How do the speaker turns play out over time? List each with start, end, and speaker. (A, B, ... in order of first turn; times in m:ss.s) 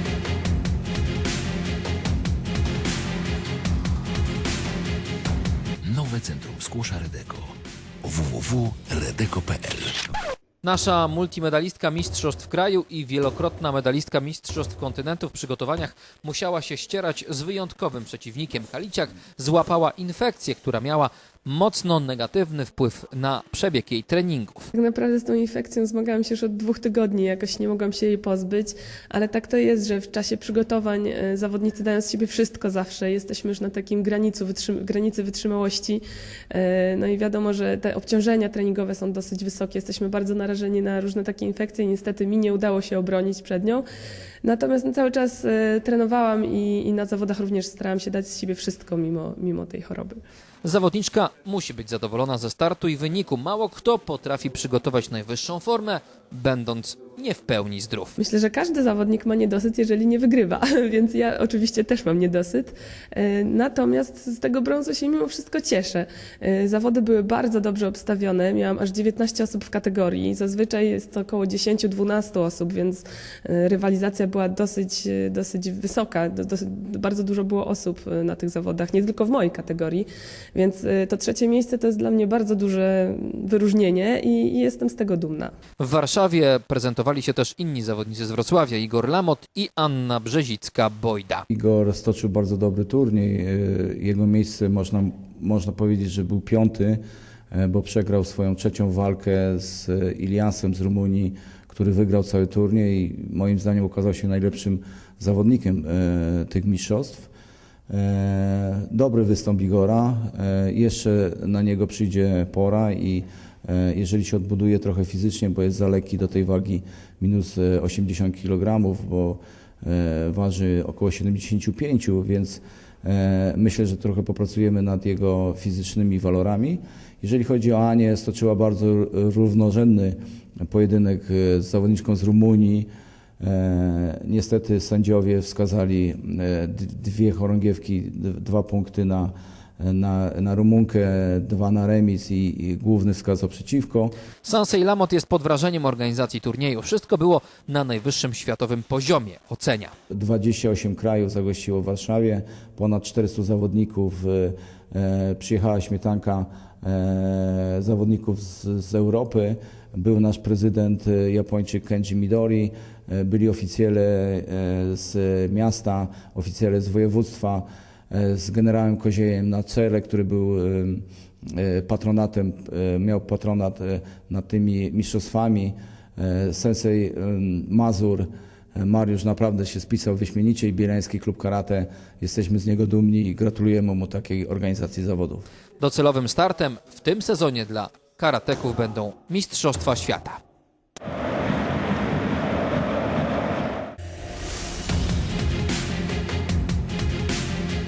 0:05.8-0:10.1 A
0:10.6-0:24.7 B
0:24.7-0:43.8 C
0:44.4-0:50.2 C
0:50.6-0:58.2 B
0:58.2-1:25.5 C
1:25.8-1:31.4 B
1:31.5-1:47.3 D
1:47.9-2:24.1 D
2:24.4-2:29.9 B
2:30.1-3:05.4 D
3:05.8-3:10.4 B